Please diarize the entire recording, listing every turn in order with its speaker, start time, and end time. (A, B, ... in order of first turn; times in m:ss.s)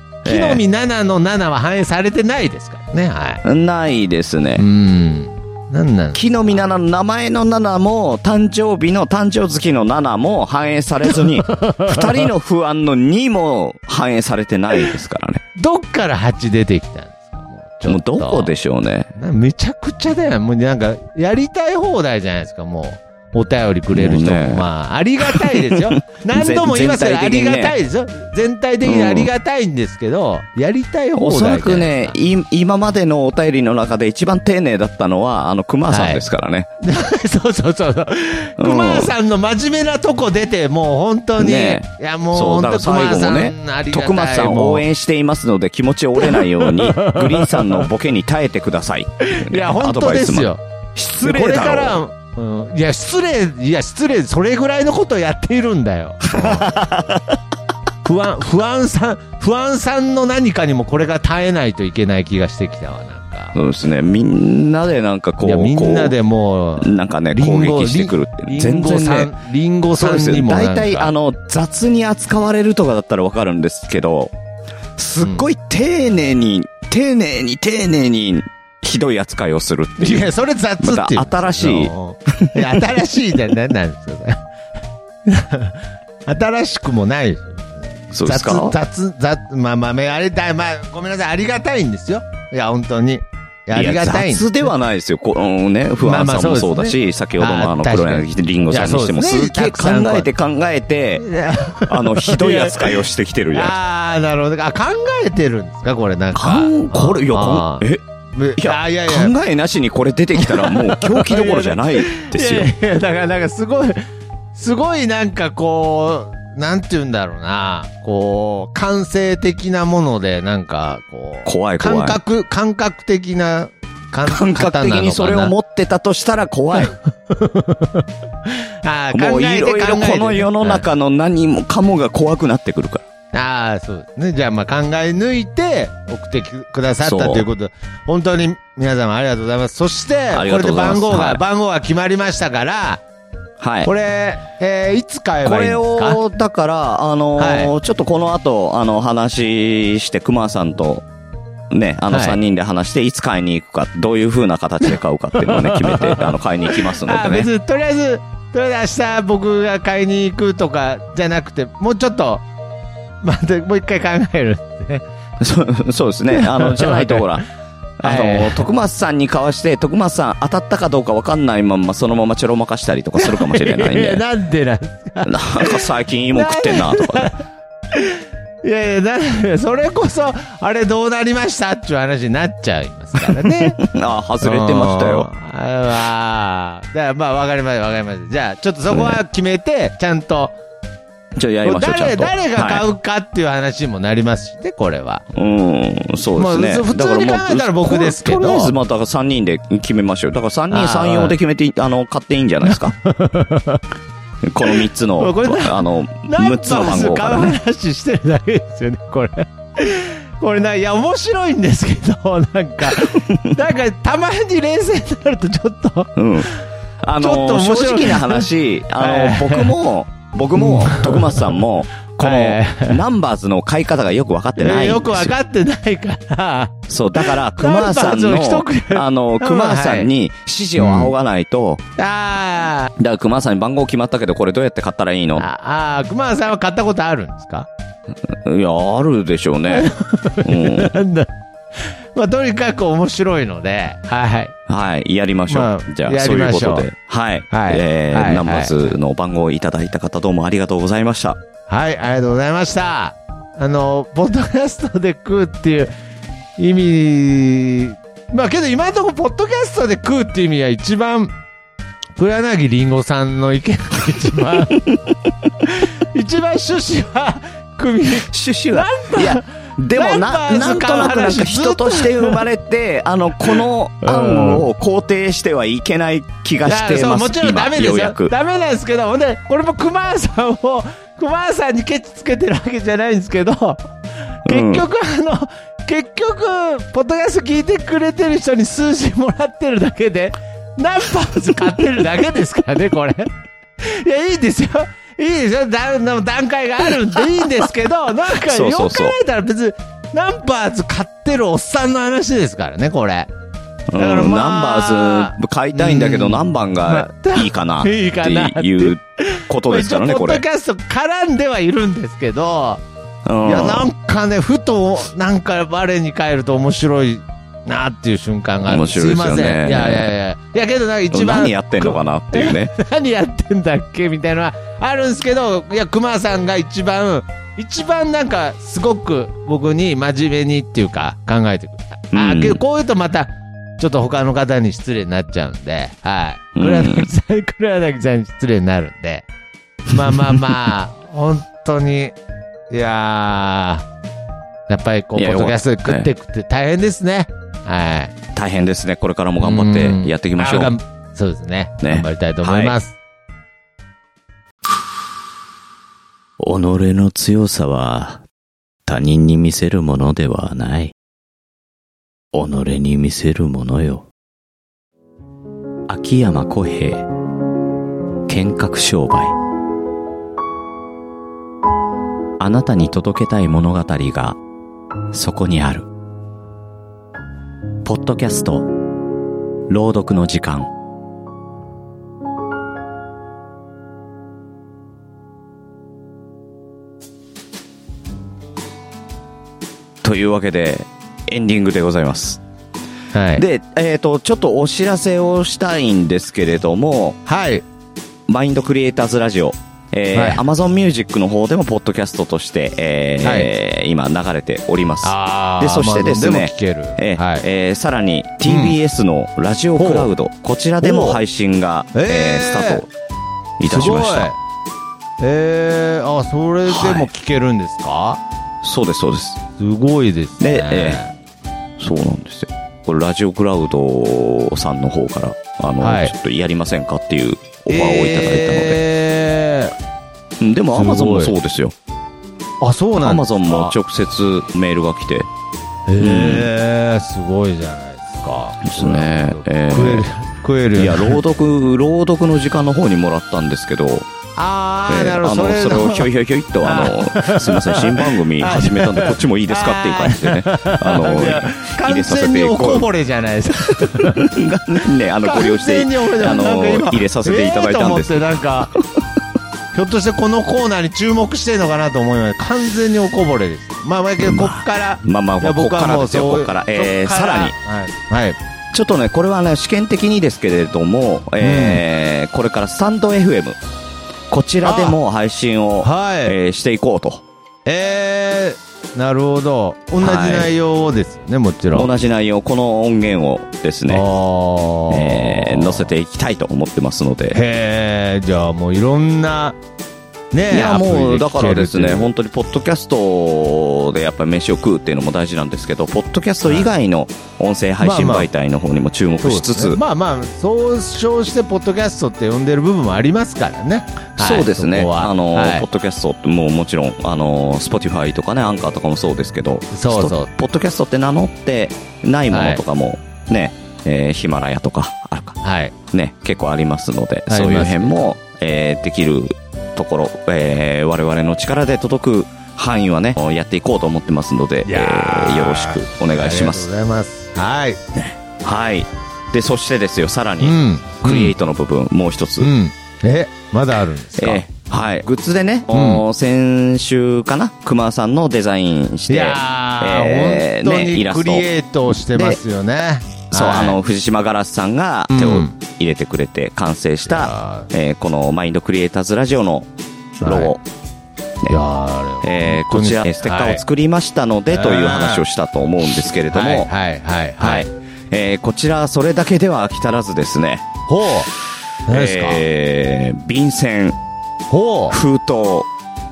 0:00.2-0:03.4 A
0:00.3-0:00.6 B
0:03.4-0:04.6 B
0:04.6-0:06.2 A
0:06.1-0:15.4 B
0:11.2-0:12.2 A
0:15.6-0:18.5 A
0:17.9-0:19.1 B
0:19.2-0:32.2 A
0:23.9-0:24.7 B
0:25.3-0:27.8 B
0:28.8-0:29.3 B
0:31.2-0:36.7 B
0:35.9-0:36.2 A
0:36.8-0:44.8 A
0:38.6-0:39.1 B
0:41.4-0:52.0 B
0:46.2-0:47.9 A
0:49.3-0:50.6 A
0:51.2-0:56.8 A
0:56.2-0:57.2 B
0:58.0-1:03.6 A
1:03.6-1:06.2 B
1:05.4-1:11.1 A
1:06.8-1:09.3 B
1:10.0-1:14.3 B
1:15.0-1:22.8 B
1:15.2-1:15.5 A
1:20.0-1:24.4 A
1:25.2-1:34.7 A
1:28.1-1:28.8 B
1:33.7-1:43.8 B
1:36.0-1:40.3 A
1:41.2-1:43.0 A
1:43.5-1:49.3 A
1:46.4-1:48.0 B
1:48.6-1:52.7 B
1:50.4-1:54.0 A
1:54.5-2:05.5 A
2:01.5-2:02.2 B
2:04.3-2:07.0 B
2:06.7-2:10.8 A
2:09.1-2:13.0 B
2:13.3-2:23.0 A
2:17.0-2:17.5 B
2:20.3-2:21.4 B
2:23.6-2:23.9 B
2:23.8-2:26.2 A
2:25.4-2:31.0 B
2:27.4-2:27.7 A
2:31.7-2:37.5 B
2:32.1-2:32.4 A
2:35.4-2:42.4 A
2:43.2-2:45.0 A
2:45.4-2:47.5 B
2:46.3-2:47.4 A
2:48.0-2:54.2 B
2:48.0-2:48.6 A
2:53.2-2:57.4 A
2:55.2-2:57.3 B
2:57.9-3:03.8 A
3:03.4-3:05.3 B
3:04.4-3:10.6 A
3:08.9-3:09.2 B
3:11.4-3:12.8 B
3:11.6-3:15.2 A
3:15.3-3:23.0 B
3:16.4-3:18.7 A
3:20.7-3:21.4 A
3:22.6-3:23.8 A
3:24.4-3:27.6 B
3:24.6-3:36.2 A
3:33.1-3:33.5 B
3:36.2-3:45.3 B
3:37.2-3:39.8 A
3:40.6-3:41.6 A
3:42.2-3:43.0 A
3:44.6-3:50.1 A
3:46.9-3:51.8 B
3:50.8-3:51.1 A
3:52.0-3:52.9 A
3:53.0-3:55.5 B
3:55.4-3:57.7 A
3:58.2-3:59.9 B
3:59.7-4:04.6 A
4:00.4-4:00.9 B
4:04.7-4:11.4 B
4:05.5-4:06.9 A
4:07.5-4:09.0 A
4:11.7-4:15.9 A
4:16.6-4:21.3 A
4:22.2-4:24.8 A
4:25.7-4:32.4 A
4:28.3-4:38.3 B
4:33.4-4:34.7 A
4:36.6-4:43.9 A
4:44.4-5:03.3 A
4:44.5-4:44.8 B
4:58.5-4:59.2 B
5:03.9-5:10.4 B
5:04.0-5:12.8 A
5:13.2-5:13.9 B
5:13.4-5:39.3 A
5:18.7-5:20.1 B
5:21.1-5:22.7 B
5:32.1-5:32.6 B
5:36.6-5:37.1 B
5:39.9-5:42.2 A
5:42.7-5:43.9 A
5:44.7-5:48.1 A
5:45.2-5:46.1 B
5:48.4-5:50.8 B
5:49.4-5:53.0 A
5:51.8-5:52.8 B
5:56.4-5:58.2 C
5:58.9-6:00.9 C
6:02.3-6:04.1 C
6:05.9-6:07.1 C
6:08.3-6:09.3 C
6:12.4-6:14.4 C
6:15.1-6:15.9 C
6:17.8-6:18.7 C
6:19.7-6:20.7 C
6:30.0-6:32.4 B
6:33.1-6:33.4 A
6:33.4-6:37.2 B
6:37.3-6:37.6 A
6:38.3-6:52.9 B
6:40.1-6:40.4 A
6:43.2-6:43.5 A
6:45.0-6:47.4 A
6:48.4-6:48.8 A
6:49.8-6:50.1 A
6:50.8-6:51.2 A
6:52.0-6:52.8 A
6:53.6-6:54.3 B
6:53.6-6:54.4 A
6:55.2-6:58.2 A
6:56.7-6:57.1 B
6:58.6-6:59.4 B
6:59.6-7:01.1 A
7:00.4-7:01.0 B
7:01.8-7:08.8 B
7:05.8-7:06.1 A
7:07.7-7:09.7 A
7:10.4-7:11.8 B
7:10.7-7:11.3 A
7:12.6-7:13.8 A
7:13.0-7:15.3 B
7:15.9-7:21.2 A
7:16.0-7:16.5 B
7:18.6-7:20.1 B
7:20.8-7:24.1 B
7:24.4-7:26.1 A
7:24.9-7:32.9 B
7:26.6-7:34.3 A
7:33.7-7:38.8 B
7:35.2-7:38.7 A
7:39.7-7:48.4 A
7:44.2-7:47.5 B
7:48.7-7:53.6 B
7:51.4-7:51.8 A
7:54.3-7:57.2 B
7:54.6-7:55.0 A
7:55.8-7:56.4 A
7:57.7-8:01.9 A
8:00.0-8:00.5 B
8:01.7-8:04.0 B
8:03.9-8:05.9 A
8:04.9-8:07.4 B
8:07.3-8:09.6 A
8:10.3-8:12.1 A
8:10.5-8:19.8 B
8:16.4-8:16.7 A
8:17.8-8:18.3 A
8:19.2-8:25.6 A
8:24.1-8:35.4 B
8:29.7-8:30.3 A
8:32.3-8:32.6 A
8:35.4-8:35.8 A
8:35.9-8:46.7 B
8:37.3-8:38.1 A
8:44.6-8:47.8 A
8:48.4-8:52.5 B
8:50.4-8:51.4 A
8:52.4-8:54.4 A
8:54.2-9:02.4 B
8:55.7-8:56.0 A
8:59.1-9:03.8 A
9:03.3-9:09.7 B
9:05.1-9:05.6 A
9:07.0-9:07.7 A
9:10.2-9:10.6 B
9:10.2-9:10.6 A
9:11.5-9:13.6 A
9:12.2-9:16.7 B
9:14.5-9:15.2 A
9:16.3-9:17.7 A
9:17.4-9:20.7 B
9:20.9-9:21.3 A
9:21.9-9:22.4 A
9:21.9-9:24.0 B
9:24.5-9:25.0 A
9:24.9-9:25.7 B